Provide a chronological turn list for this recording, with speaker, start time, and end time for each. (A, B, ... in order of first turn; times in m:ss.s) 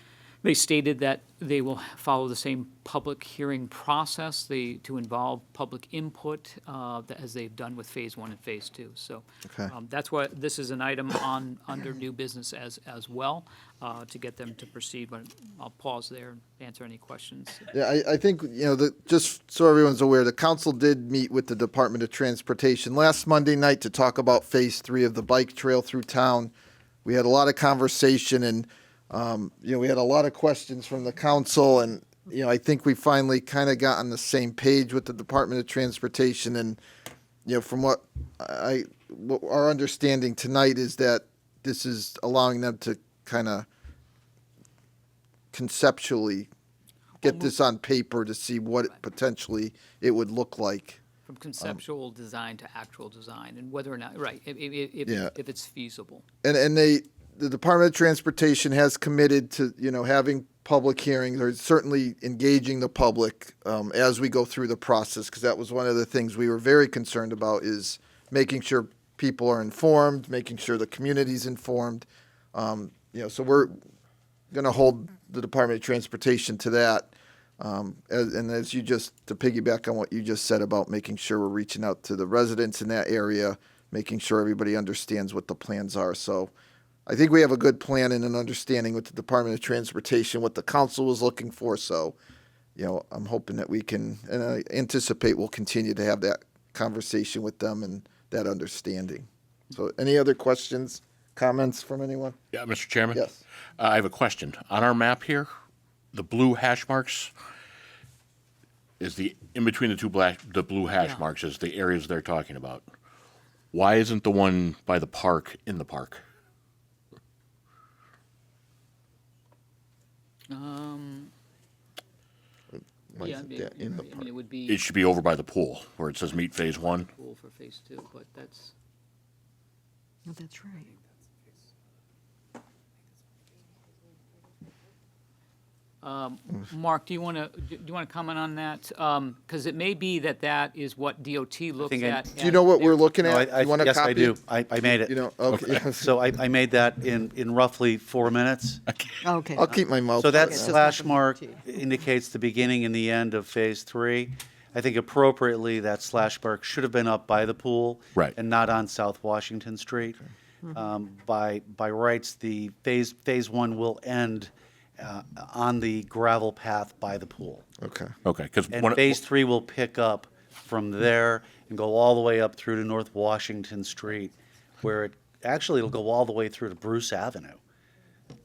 0:00.4-0:17.7 A
0:17.7-0:26.5 B
0:27.0-0:36.8 B
0:37.4-0:43.7 B
0:45.5-0:46.5 B
0:47.2-0:47.5 A
0:47.2-0:51.0 B
0:51.2-0:56.2 A
0:55.0-0:55.3 B
0:56.4-1:13.8 B
1:14.5-1:26.5 B
1:27.1-1:32.2 B
1:32.8-1:42.4 B
1:42.5-1:43.2 C
1:43.1-1:43.4 B
1:43.8-1:45.5 C
1:46.1-1:47.3 C
1:49.0-1:52.9 C
1:53.7-1:56.2 C
2:00.5-2:01.3 A
2:03.1-2:04.2 B
2:03.2-2:04.8 A
2:04.7-2:07.1 C
2:06.8-2:08.7 A
2:10.2-2:10.9 D
2:16.0-2:23.0 A
2:21.8-2:22.3 E
2:22.4-2:24.4 B
2:23.2-2:25.1 E
2:24.9-2:26.1 B
2:25.6-2:28.8 E
2:29.2-2:29.6 D
2:29.5-2:30.8 B
2:30.2-2:47.6 E
2:30.4-2:31.6 D
2:47.8-2:48.1 B
2:48.2-2:49.2 C
2:48.7-2:57.6 E